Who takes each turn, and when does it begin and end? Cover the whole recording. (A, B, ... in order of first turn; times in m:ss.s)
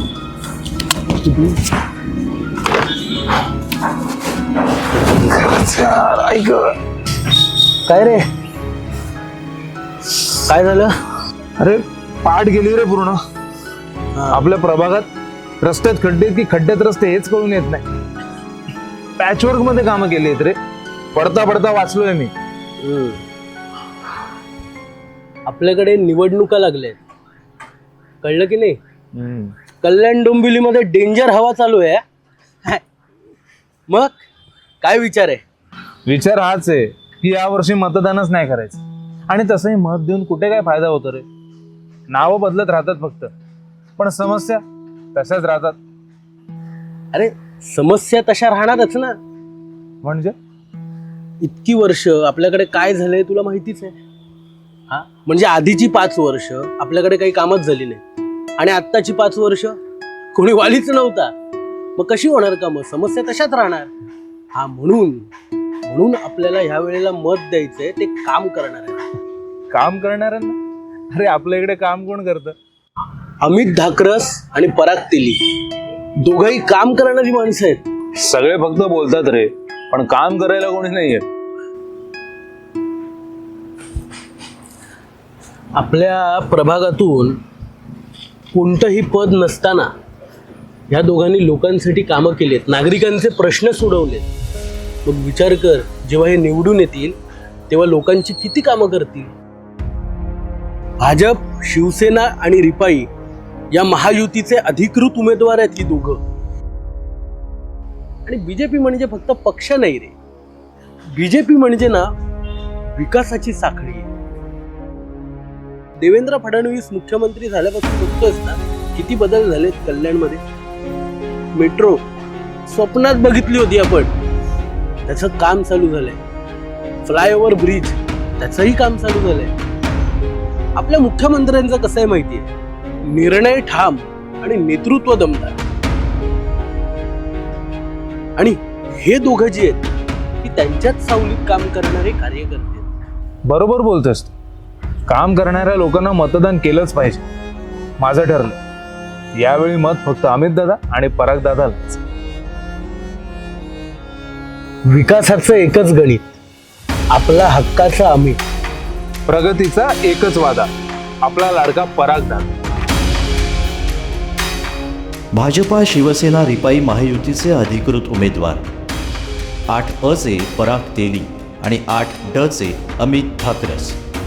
0:01.2-0:01.6 A
0:05.2-0:06.8 B
0:07.8-0:08.2 A
0:10.2-0:10.9 A
0:11.6-0:13.2 B
0:14.1-0:14.5 A
0:14.3-0:15.1 B
0:15.6-0:17.8 B
0:19.2-0:20.6 B
0:21.2-0:22.3 B
0:22.8-0:23.2 A
0:25.5-0:27.0 A
0:28.2-0:28.8 A
0:29.2-0:29.5 B
0:29.8-0:32.0 A
0:33.9-0:34.2 A
0:34.8-0:35.4 A
0:36.1-0:41.2 B
0:42.1-0:43.3 B
0:44.0-0:44.6 B
0:45.2-0:45.8 B
0:47.1-0:49.2 A
0:50.0-0:50.4 B
0:51.4-0:54.0 A
0:54.9-0:58.0 A
0:58.6-0:59.8 A
1:00.3-1:01.3 A
1:02.0-1:03.9 A
1:04.5-1:05.3 A
1:05.9-1:09.0 A
1:09.7-1:10.6 B
1:11.1-1:12.6 B
1:13.4-1:15.4 A
1:16.2-1:17.8 A
1:18.2-1:21.2 B
1:25.8-1:27.4 A
1:28.5-1:29.9 A
1:30.9-1:34.3 A
1:35.0-1:37.2 A
1:37.7-1:39.3 A
1:41.0-1:43.1 A
1:43.7-1:46.2 A
1:48.2-1:50.2 A
1:51.1-1:52.1 A
1:53.0-1:54.1 A
1:56.0-2:00.4 A
2:01.6-2:02.0 A
2:02.7-2:04.1 A
2:05.1-2:06.2 A
2:07.0-2:09.5 A
2:10.8-2:12.5 A
2:13.1-2:15.6 A
2:18.4-2:19.9 A
2:20.4-2:22.9 A
2:23.5-2:24.3 B
2:25.1-2:27.2 B
2:28.0-2:28.6 B
2:29.4-2:31.9 B
2:34.9-2:36.3 A
2:37.1-2:38.4 A
2:39.3-2:40.7 B
2:41.2-2:42.5 B
2:45.3-2:48.6 C
2:49.7-2:54.0 C